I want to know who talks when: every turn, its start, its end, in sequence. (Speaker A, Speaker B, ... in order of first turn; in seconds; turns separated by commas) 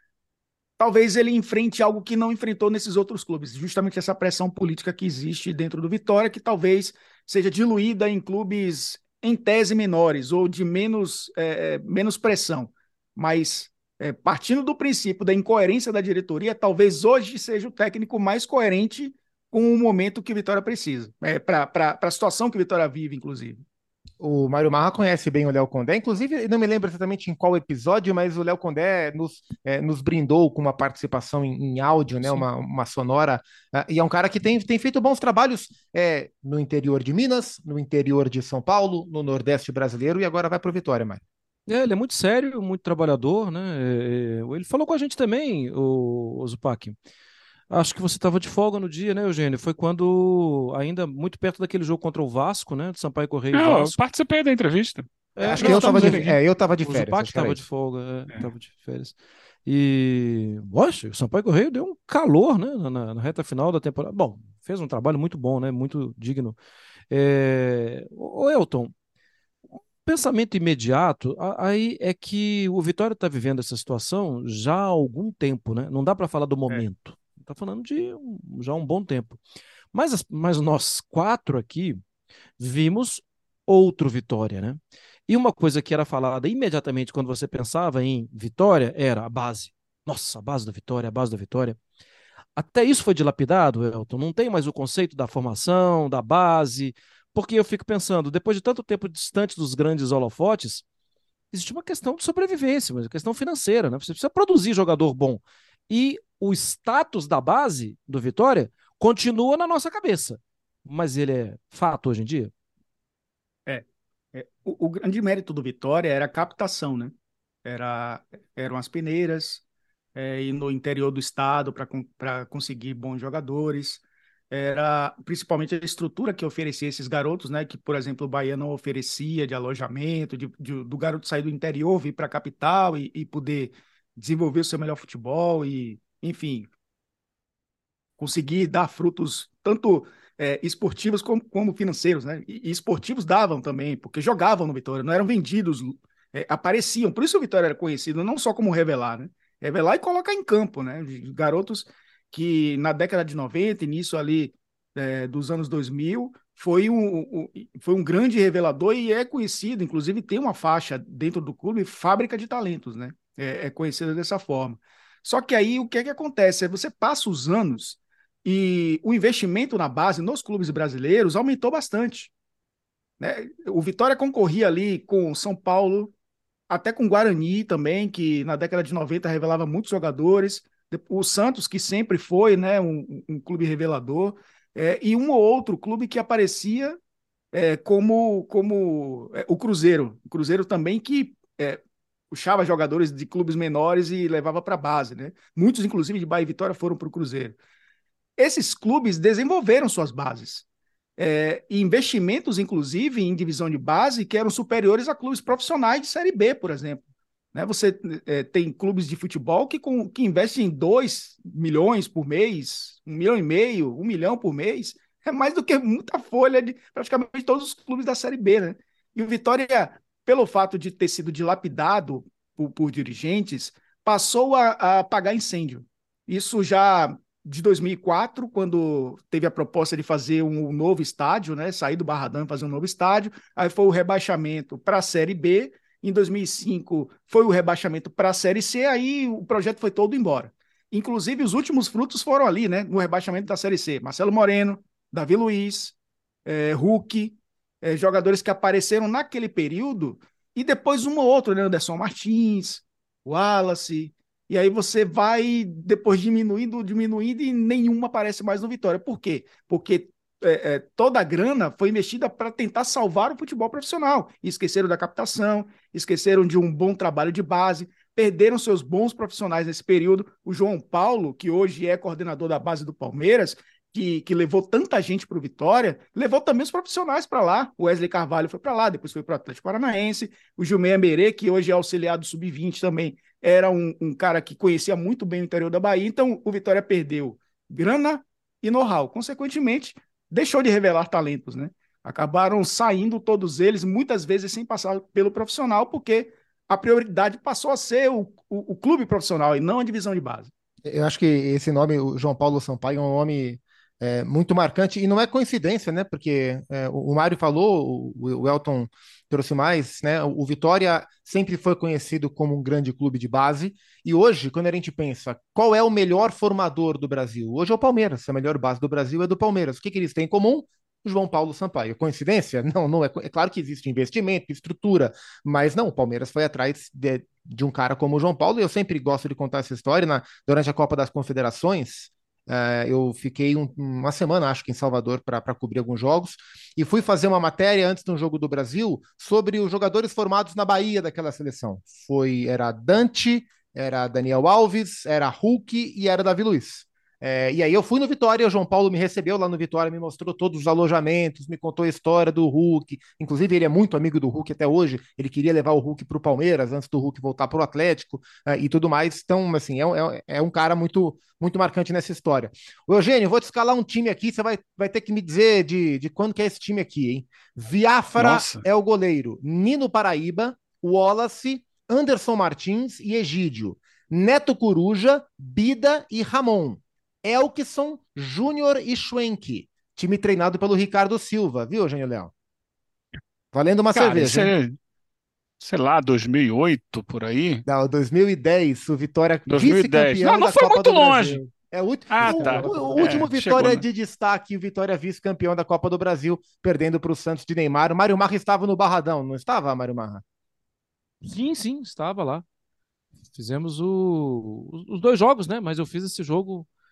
Speaker A: 0.8-23.6, Speaker B: 24.2-41.2, Speaker C: 41.7-47.0, Speaker C: 47.7-53.9, Speaker D: 53.5-56.3, Speaker C: 55.3-59.1, Speaker B: 55.4-57.6, Speaker C: 59.6-66.5, Speaker C: 67.1-68.9, Speaker C: 70.0-79.4, Speaker C: 79.9-82.0, Speaker C: 82.6-91.8, Speaker C: 92.5-100.8, Speaker C: 101.5-112.5, Speaker A: 113.7-117.1, Speaker A: 117.6-119.6, Speaker A: 120.1-136.7, Speaker A: 138.2-172.3, Speaker A: 173.2-176.1, Speaker A: 176.7-187.0, Speaker A: 187.5-197.6, Speaker A: 198.4-200.6, Speaker A: 201.2-207.0, Speaker A: 207.5-245.9, Speaker A: 246.4-300.5, Speaker B: 300.8-382.3, Speaker D: 368.2-368.6, Speaker B: 383.5-384.5, Speaker D: 383.9-384.8, Speaker D: 385.6-387.6, Speaker B: 387.6-400.2, Speaker D: 389.5-391.4, Speaker D: 392.1-393.8, Speaker C: 392.2-393.2, Speaker C: 401.2-402.4, Speaker C: 403.3-406.7